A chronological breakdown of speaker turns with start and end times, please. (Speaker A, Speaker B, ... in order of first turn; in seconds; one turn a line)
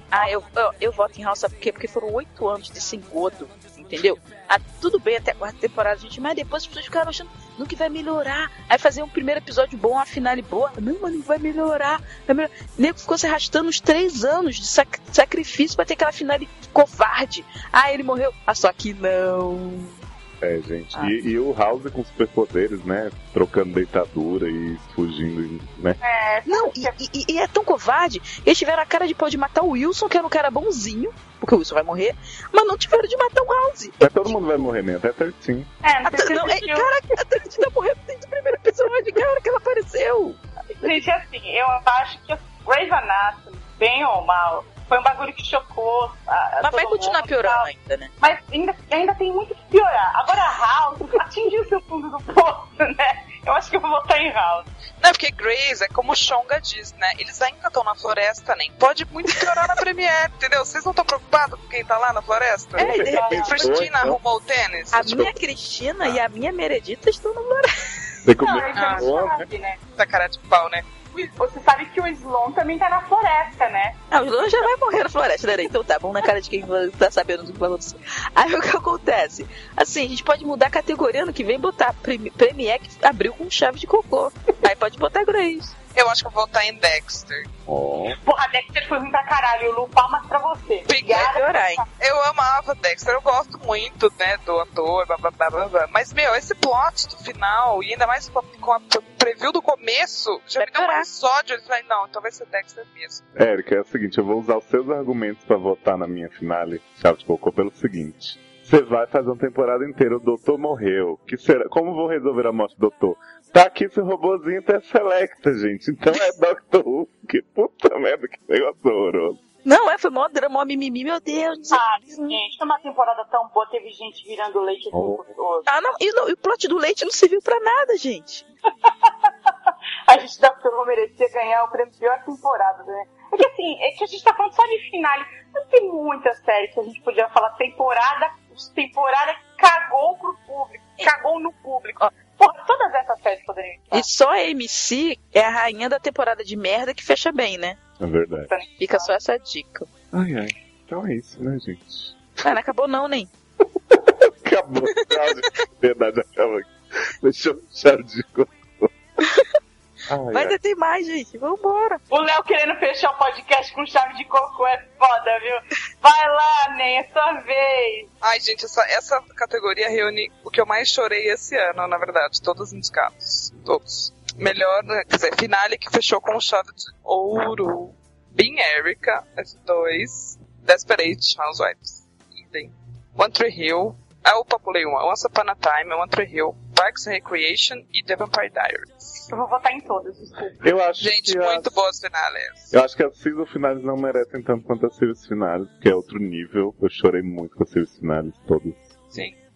Speaker A: 0.1-20.0
Speaker B: 20.4-26.0
Speaker C: 26.0-27.0
Speaker A: 26.5-34.3
Speaker B: 34.0-35.7
Speaker C: 35.8-36.9
Speaker A: 36.0-40.9
Speaker C: 40.8-47.7
Speaker A: 46.6-48.1
Speaker C: 48.2-54.7
Speaker D: 55.0-65.3
Speaker A: 62.8-63.6
Speaker B: 62.8-64.2
Speaker C: 63.1-63.5
Speaker A: 64.9-67.7
Speaker B: 68.2-69.5
Speaker C: 68.4-69.8
Speaker D: 68.7-69.1
Speaker D: 70.0-70.9
Speaker C: 71.3-74.0
Speaker A: 74.1-85.8
Speaker D: 86.0-87.5
Speaker B: 87.7-88.2
Speaker C: 88.1-91.9
Speaker D: 90.9-91.3
Speaker A: 91.0-91.8
Speaker D: 92.0-103.2
Speaker A: 100.6-101.1
Speaker B: 103.4-119.4
Speaker A: 119.7-122.4
Speaker C: 121.7-125.7
Speaker B: 124.9-125.2
Speaker A: 125.7-128.4
Speaker C: 128.8-129.5
Speaker C: 130.1-144.1
Speaker A: 143.9-147.8
Speaker B: 148.0-148.5
Speaker C: 148.5-149.1
Speaker A: 148.8-149.9
Speaker B: 150.1-152.2
Speaker A: 152.4-153.3
Speaker B: 153.9-158.9
Speaker B: 160.1-160.6
Speaker A: 160.3-162.0
Speaker C: 162.1-168.1
Speaker D: 168.2-189.3
Speaker C: 189.3-190.7
Speaker B: 190.6-191.8
Speaker D: 191.0-192.7
Speaker B: 192.7-199.0